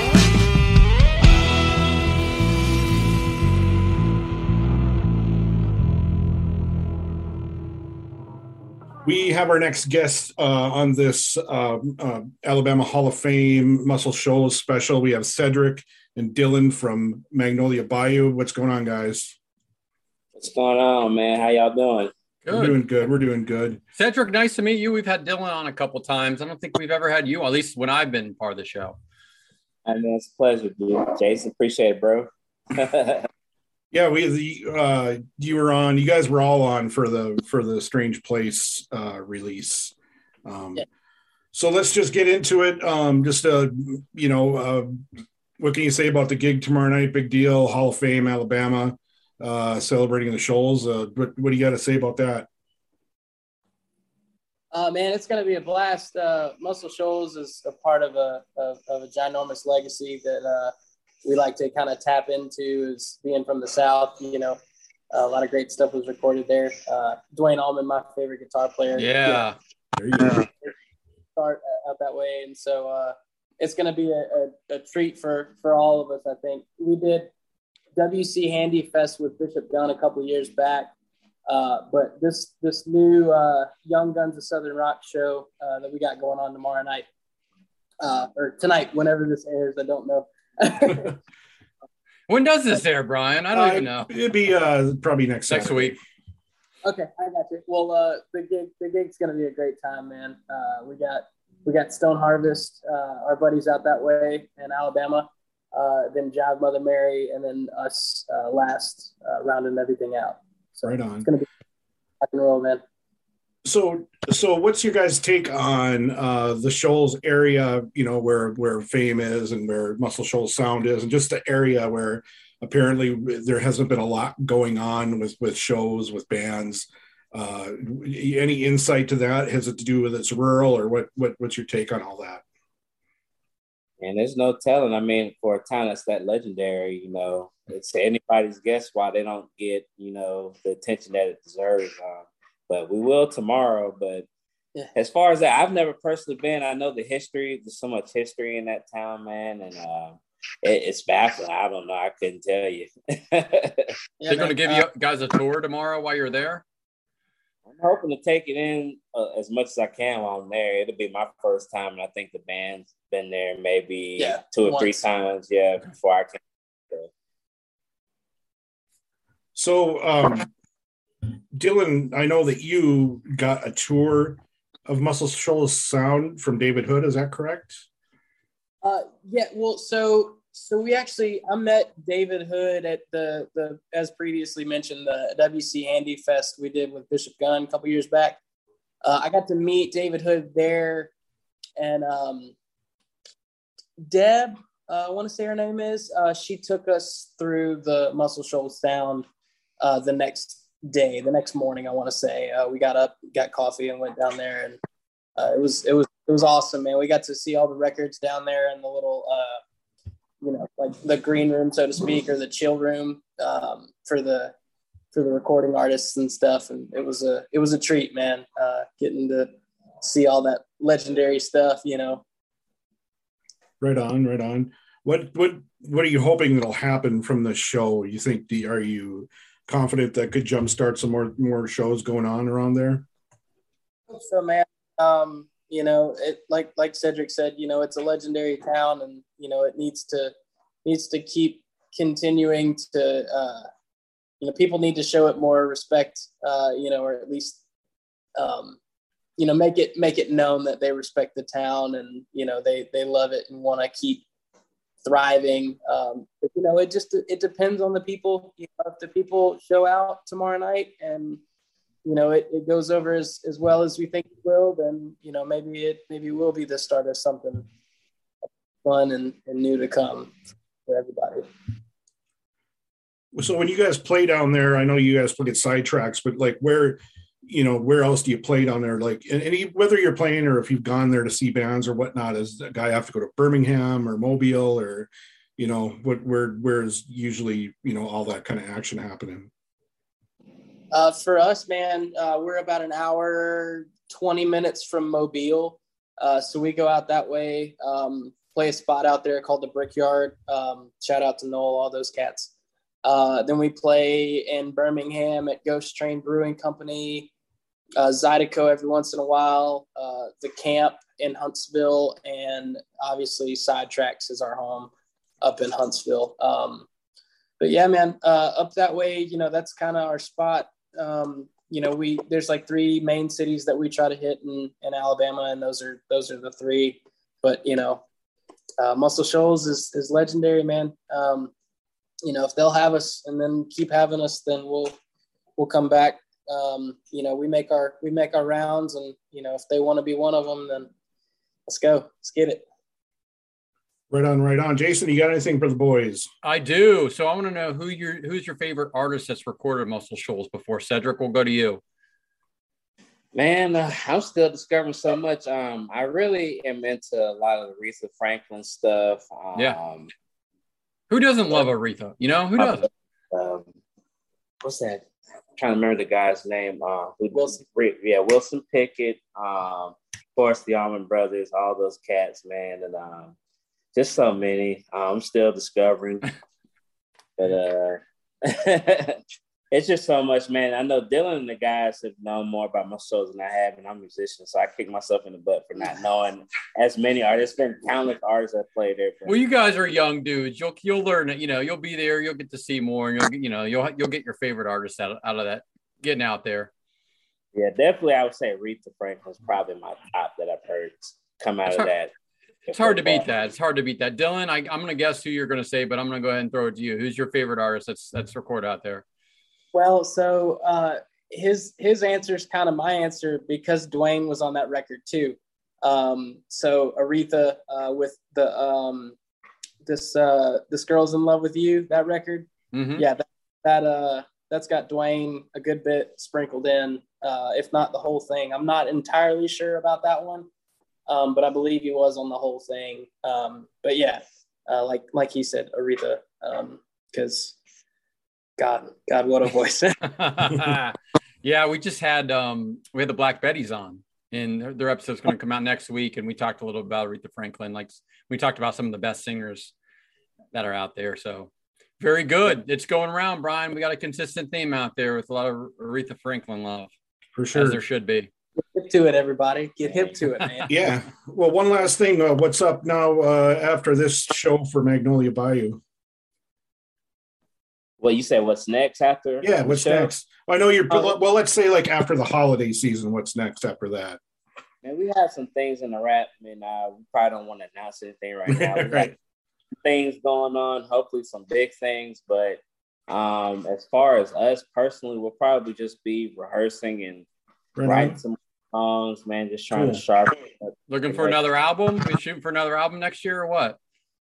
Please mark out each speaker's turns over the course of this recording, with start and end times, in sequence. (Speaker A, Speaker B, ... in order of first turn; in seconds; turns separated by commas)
Speaker A: 9.1-19.4, Speaker B: 20.4-22.1, Speaker C: 22.5-22.8, Speaker A: 22.5-23.8, Speaker C: 24.0-29.0, Speaker B: 29.9-33.3, Speaker A: 33.9-39.9, Speaker A: 40.5-40.9, Speaker A: 41.5-45.0, Speaker A: 45.6-52.5, Speaker D: 54.7-64.6, Speaker D: 65.1-69.2, Speaker C: 69.0-69.6, Speaker A: 70.0-70.5, Speaker D: 71.4-77.3, Speaker D: 78.0-80.9, Speaker D: 81.5-87.0, Speaker D: 88.0-91.1, Speaker C: 92.3-94.1, Speaker A: 93.5-96.0, Speaker C: 95.5-96.0, Speaker D: 96.8-111.5, Speaker A: 110.8-111.3, Speaker D: 112.2-112.8, Speaker A: 113.7-132.4, Speaker B: 134.0-144.3, Speaker B: 144.9-153.9, Speaker D: 154.2-154.8, Speaker C: 154.3-156.6, Speaker B: 157.7-166.4, Speaker D: 164.2-165.1, Speaker A: 169.6-170.5, Speaker A: 171.6-177.8, Speaker D: 178.8-188.4, Speaker D: 189.0-191.1, Speaker D: 191.8-192.5, Speaker D: 194.1-199.2, Speaker D: 199.8-204.8, Speaker D: 205.4-209.6, Speaker D: 210.4-214.5, Speaker D: 215.1-222.2, Speaker A: 223.8-233.1, Speaker D: 234.1-240.3, Speaker D: 240.8-243.7, Speaker D: 244.4-247.6, Speaker D: 248.4-248.8, Speaker D: 249.4-254.2, Speaker D: 255.0-261.4, Speaker D: 262.1-267.7, Speaker D: 268.8-270.3, Speaker D: 270.9-271.5, Speaker A: 273.3-289.5, Speaker D: 290.9-302.5, Speaker D: 303.1-307.3, Speaker D: 308.0-314.9, Speaker D: 315.4-316.9, Speaker D: 317.6-328.0, Speaker D: 328.8-331.5, Speaker D: 332.2-334.9, Speaker D: 335.6-340.9, Speaker D: 341.7-342.6, Speaker A: 344.1-346.3, Speaker C: 346.4-351.8, Speaker B: 353.3-360.1, Speaker C: 361.1-362.9, Speaker B: 363.3-363.7, Speaker B: 364.6-365.1, Speaker B: 365.6-373.4, Speaker B: 373.9-376.3, Speaker B: 377.4-379.2, Speaker B: 379.7-389.4, Speaker C: 389.3-396.7, Speaker B: 397.5-402.1, Speaker C: 401.7-401.9, Speaker B: 402.7-403.3, Speaker C: 402.7-409.0, Speaker D: 409.7-419.1, Speaker D: 419.9-430.5, Speaker C: 422.7-423.1, Speaker D: 431.1-437.6, Speaker D: 438.6-440.0, Speaker C: 440.1-449.7, Speaker C: 450.5-456.9, Speaker A: 457.4-457.8, Speaker C: 457.5-458.3, Speaker D: 458.6-460.7, Speaker B: 459.9-460.1, Speaker A: 460.7-465.8, Speaker B: 468.0-470.1, Speaker A: 469.4-474.2, Speaker D: 470.9-471.1, Speaker B: 474.8-479.1, Speaker A: 478.5-479.1, Speaker B: 479.8-487.3, Speaker A: 487.8-488.2, Speaker B: 487.8-491.4, Speaker A: 489.7-490.0, Speaker C: 490.9-493.8